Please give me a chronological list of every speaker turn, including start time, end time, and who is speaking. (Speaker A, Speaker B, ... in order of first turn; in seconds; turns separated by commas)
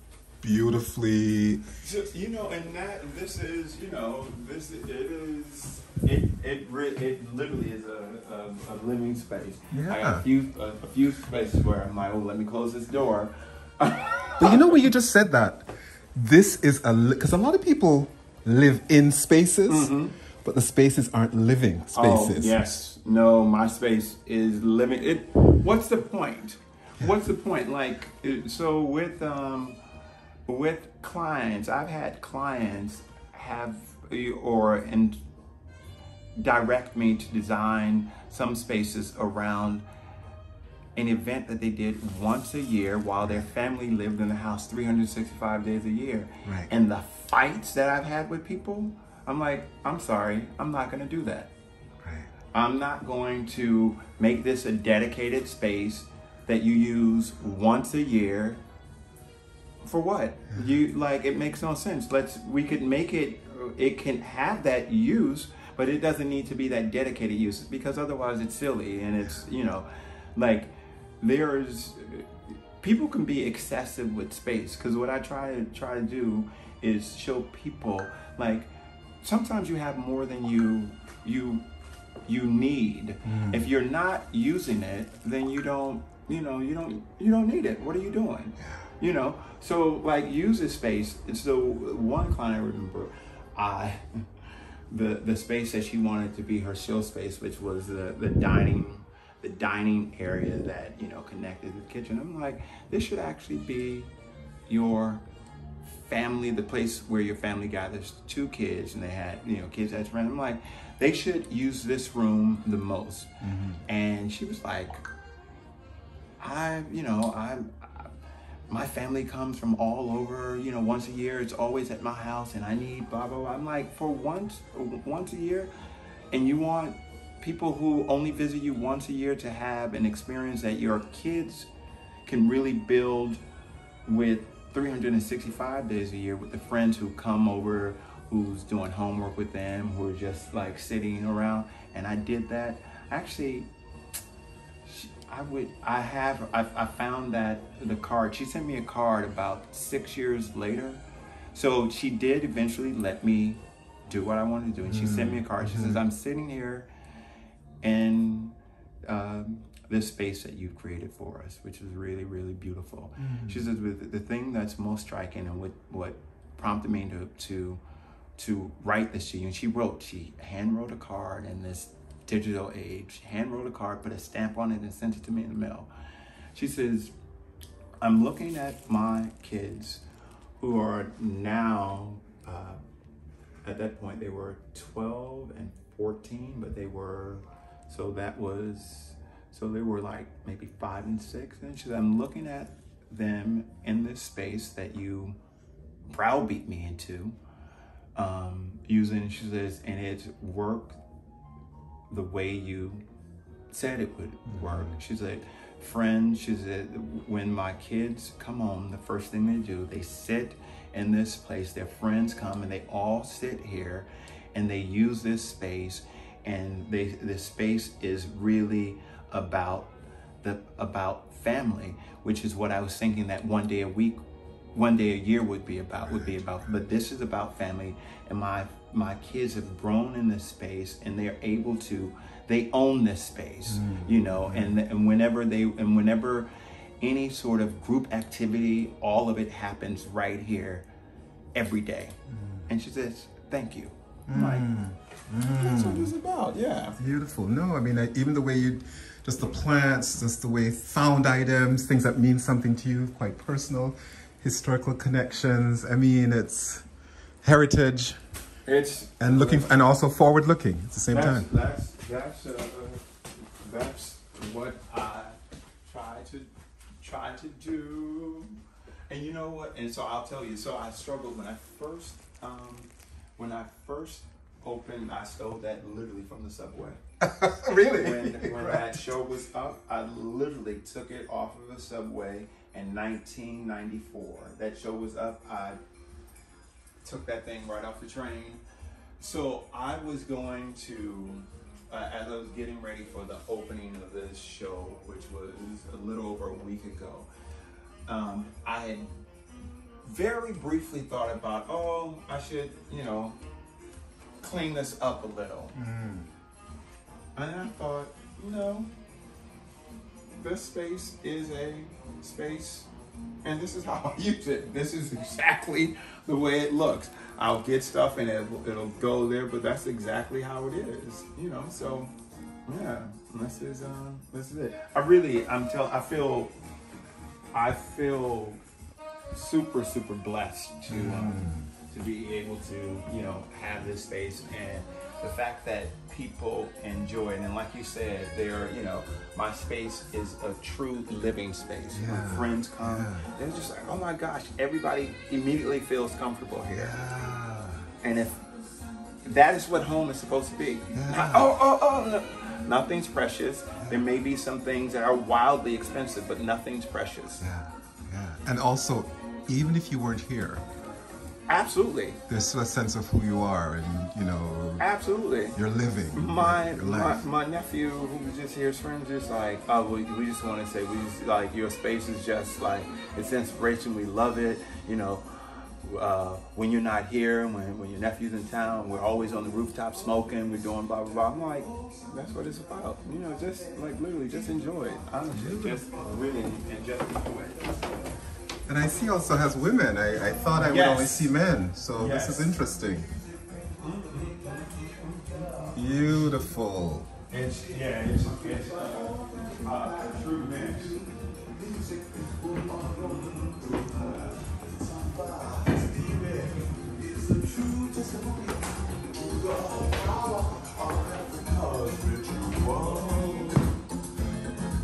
Speaker A: 0.4-1.6, Speaker B: 1.8-14.8, Speaker A: 9.7-10.2, Speaker A: 14.4-19.9, Speaker B: 19.7-20.1, Speaker A: 20.4-22.6, Speaker B: 21.9-29.8, Speaker B: 30.5-35.2, Speaker B: 36.4-39.8, Speaker B: 41.0-51.5, Speaker A: 46.5-46.7, Speaker A: 52.0-52.3, Speaker B: 52.5-58.6, Speaker B: 59.9-78.7, Speaker B: 79.2-81.7, Speaker B: 82.3-104.1, Speaker A: 83.3-83.6, Speaker B: 104.7-105.2, Speaker B: 105.9-113.3, Speaker A: 113.4-113.8, Speaker B: 113.9-115.1, Speaker B: 116.4-118.1, Speaker B: 118.7-125.7, Speaker B: 126.3-131.7, Speaker B: 132.3-133.4, Speaker B: 134.1-143.7, Speaker B: 144.9-151.0, Speaker B: 151.5-156.9, Speaker A: 154.9-156.0, Speaker B: 157.8-167.8, Speaker A: 163.2-163.7, Speaker B: 168.4-175.9, Speaker B: 176.6-177.1, Speaker B: 178.0-180.0, Speaker B: 180.6-182.8, Speaker B: 183.6-195.4, Speaker B: 196.1-197.4, Speaker B: 198.2-201.0, Speaker B: 202.1-203.1, Speaker B: 203.7-224.2, Speaker A: 204.5-204.9, Speaker B: 224.8-236.5, Speaker A: 226.1-226.4, Speaker A: 233.7-234.7, Speaker B: 237.0-240.9, Speaker B: 241.6-242.2, Speaker A: 242.3-242.7, Speaker B: 242.7-244.7, Speaker A: 244.3-246.1, Speaker B: 245.5-247.0, Speaker A: 247.0-256.9, Speaker A: 257.4-258.2, Speaker B: 258.7-259.8, Speaker A: 259.2-261.5, Speaker B: 261.1-268.6, Speaker B: 269.1-277.0, Speaker A: 277.2-279.0, Speaker B: 277.8-285.8, Speaker B: 287.0-288.6, Speaker B: 289.2-297.3, Speaker B: 298.1-299.1, Speaker B: 300.1-303.4, Speaker B: 304.4-305.8, Speaker A: 305.8-306.3, Speaker B: 307.4-308.9, Speaker B: 310.4-312.9, Speaker B: 313.4-322.1, Speaker B: 322.7-326.6, Speaker B: 327.5-328.6, Speaker B: 329.3-347.0, Speaker A: 330.9-331.7, Speaker A: 341.9-343.3, Speaker A: 346.7-347.9, Speaker B: 348.0-348.4, Speaker B: 349.2-357.5, Speaker A: 350.9-351.6, Speaker A: 357.4-360.7, Speaker B: 361.5-362.2, Speaker A: 362.3-364.9, Speaker B: 364.8-365.6, Speaker A: 365.6-367.2, Speaker B: 366.1-388.0, Speaker A: 385.3-385.9, Speaker A: 388.7-393.1, Speaker B: 390.6-391.4, Speaker B: 391.9-392.6, Speaker B: 393.8-396.3, Speaker A: 395.8-397.1, Speaker B: 397.3-413.7